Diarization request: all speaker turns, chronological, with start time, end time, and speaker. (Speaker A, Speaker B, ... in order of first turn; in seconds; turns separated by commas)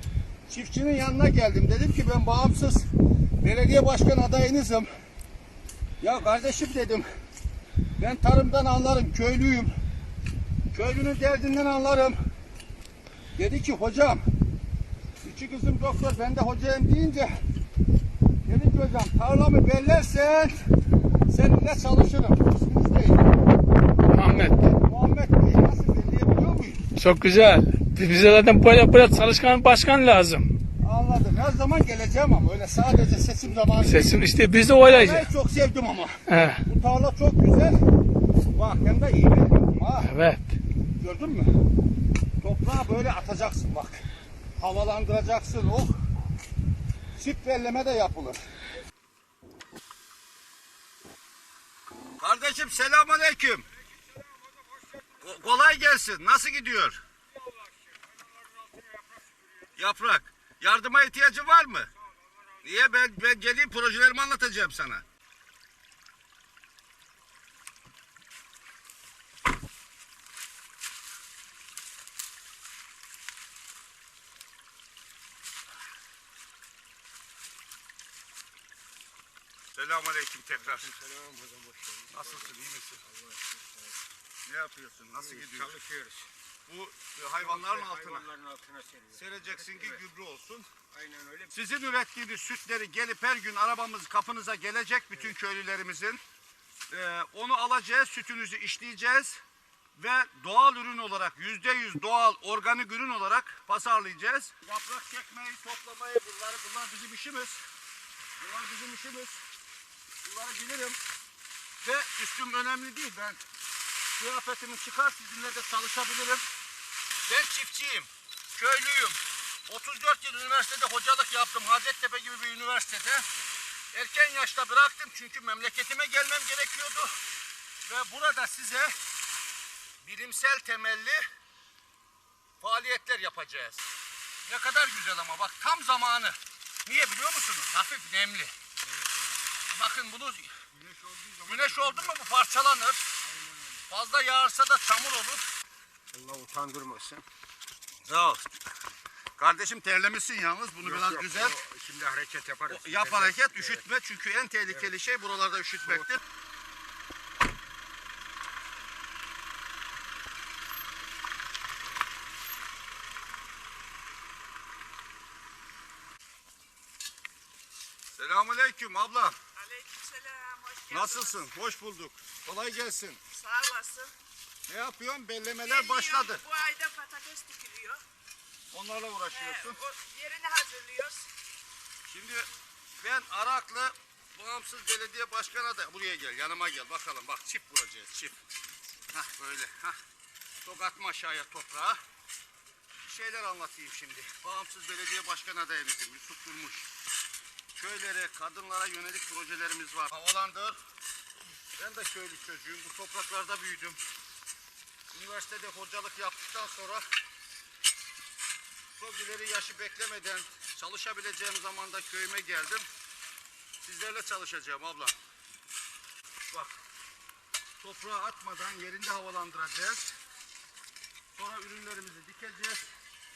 Speaker A: 0.5-2.9, Speaker A: 3.4-4.9, Speaker A: 6.0-7.0, Speaker A: 8.0-9.7, Speaker A: 10.7-12.2, Speaker A: 13.3-14.2, Speaker A: 15.2-17.3, Speaker A: 18.4-20.6, Speaker A: 21.3-23.3, Speaker B: 24.1-24.5, Speaker A: 24.6-26.9, Speaker B: 27.0-30.5, Speaker A: 30.8-34.2, Speaker B: 33.8-35.3, Speaker A: 34.8-37.8, Speaker B: 36.3-36.6, Speaker A: 38.5-40.2, Speaker B: 40.1-40.4, Speaker A: 41.0-41.5, Speaker A: 42.4-44.0, Speaker A: 44.6-45.9, Speaker A: 47.1-48.4, Speaker A: 52.2-53.6, Speaker A: 55.2-57.0, Speaker A: 59.8-61.9, Speaker A: 62.6-65.0, Speaker A: 79.7-80.9, Speaker C: 80.6-82.5, Speaker A: 82.1-83.0, Speaker C: 83.0-84.0, Speaker A: 84.5-85.7, Speaker C: 85.2-86.3, Speaker A: 86.7-88.3, Speaker C: 87.4-90.0, Speaker A: 89.1-90.7, Speaker C: 90.9-91.5, Speaker A: 91.5-96.2, Speaker A: 96.9-99.4, Speaker A: 100.0-107.6, Speaker A: 108.4-109.4, Speaker A: 110.2-111.0, Speaker A: 111.8-113.4, Speaker A: 114.2-116.4, Speaker A: 117.3-123.2, Speaker A: 123.9-127.1, Speaker A: 127.8-128.9, Speaker A: 130.0-131.2, Speaker A: 132.6-133.9, Speaker A: 134.4-138.5, Speaker A: 139.7-140.7, Speaker C: 140.8-142.1, Speaker A: 141.4-143.1, Speaker C: 143.3-143.8, Speaker A: 143.9-145.4, Speaker C: 146.1-147.2, Speaker A: 148.0-148.4, Speaker A: 149.4-151.6, Speaker C: 150.8-153.8, Speaker A: 152.7-156.2, Speaker C: 155.8-156.1, Speaker A: 168.1-169.3, Speaker D: 169.6-171.4, Speaker A: 170.9-173.2, Speaker D: 173.3-174.1, Speaker A: 174.7-176.4, Speaker D: 175.6-178.0, Speaker A: 178.7-179.8, Speaker D: 179.3-181.3, Speaker A: 182.1-182.4, Speaker A: 183.0-188.4, Speaker A: 189.1-190.0, Speaker A: 190.6-192.0, Speaker A: 193.0-196.9, Speaker A: 197.7-200.8, Speaker A: 201.8-204.0, Speaker A: 205.1-207.0, Speaker A: 208.9-212.8, Speaker A: 213.8-215.1, Speaker A: 217.8-220.1, Speaker A: 221.3-222.8